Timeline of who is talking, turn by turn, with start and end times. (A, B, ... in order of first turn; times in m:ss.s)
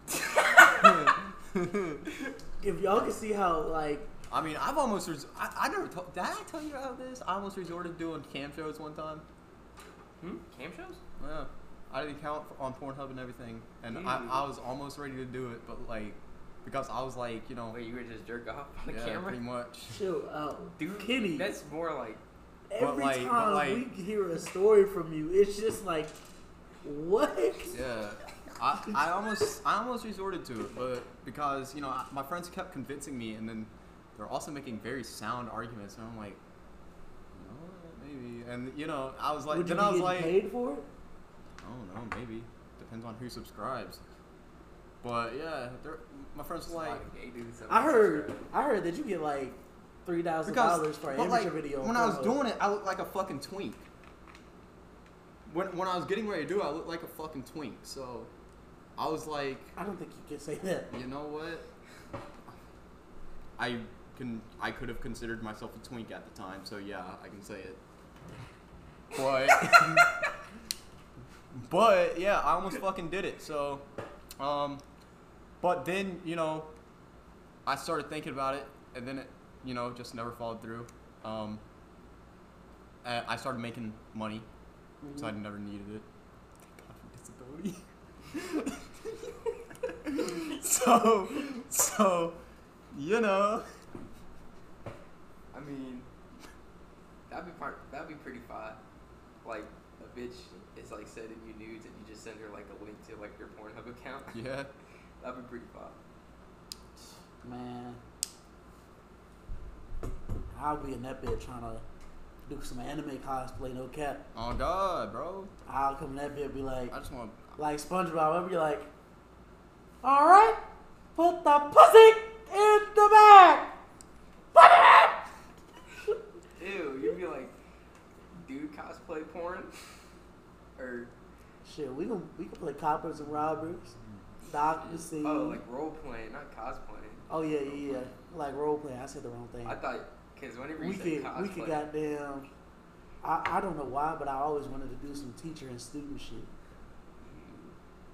0:00.4-0:00.8 A
0:00.6-0:02.0 B
0:02.6-0:04.1 C
0:04.3-0:09.2 B
0:10.2-0:11.0 A
0:11.2-0:17.8 B
0:13.9-0:14.5 A
0:17.7-0:19.4 A
0:18.9-0:20.0 B
0:19.9-0:21.5 C
0:20.8-0:22.2 A
0:22.7-0:26.2 C
0:22.8-0:23.9 B
0:26.8-0:27.8 C
0:27.7-0:36.4 B
0:37.4-0:40.4 B
0:39.5-0:40.9 C
0:41.6-0:44.0 B
0:45.0-0:47.0 B
0:46.7-0:48.5 A
0:47.7-0:52.4 C
0:50.4-0:53.8 B
0:55.5-0:58.3 B
0:59.0-0:59.8 B
0:59.8-1:00.9 C
1:00.9-1:01.7 B
1:03.6-1:07.8 B
1:09.1-1:10.2 B
1:09.2-1:10.1 A
1:11.5-1:13.9 B
1:14.4-1:14.8 B
1:15.6-1:16.7 B
1:17.7-1:21.6 B
1:23.0-1:24.5 B
1:25.0-1:25.4 C
1:25.2-1:26.1 B
1:26.6-1:27.8 B
1:28.3-1:29.1 B
1:30.0-1:32.4 B
1:32.9-1:33.7 B
1:35.5-1:36.1 A
1:37.3-1:38.8 A
1:39.4-1:44.4 A
1:44.3-1:44.7 B
1:45.2-1:46.0 A
1:47.4-1:48.0 C
1:50.5-1:51.8 C
1:52.5-1:54.2 C
1:54.4-1:55.5 B
1:55.7-1:57.0 C
1:56.9-1:57.4 B
1:57.6-1:58.9 C
2:00.0-2:00.6 C
2:01.2-2:03.8 C
2:04.5-2:05.2 C
2:06.6-2:07.6 A
2:08.4-2:09.7 A
2:10.8-2:11.1 A
2:11.6-2:14.0 C
2:14.5-2:17.3 A
2:14.5-2:15.6 C
2:17.3-2:19.8 C
2:19.6-2:21.9 A
2:20.8-2:22.5 C
2:23.2-2:26.5 C
2:27.2-2:27.7 A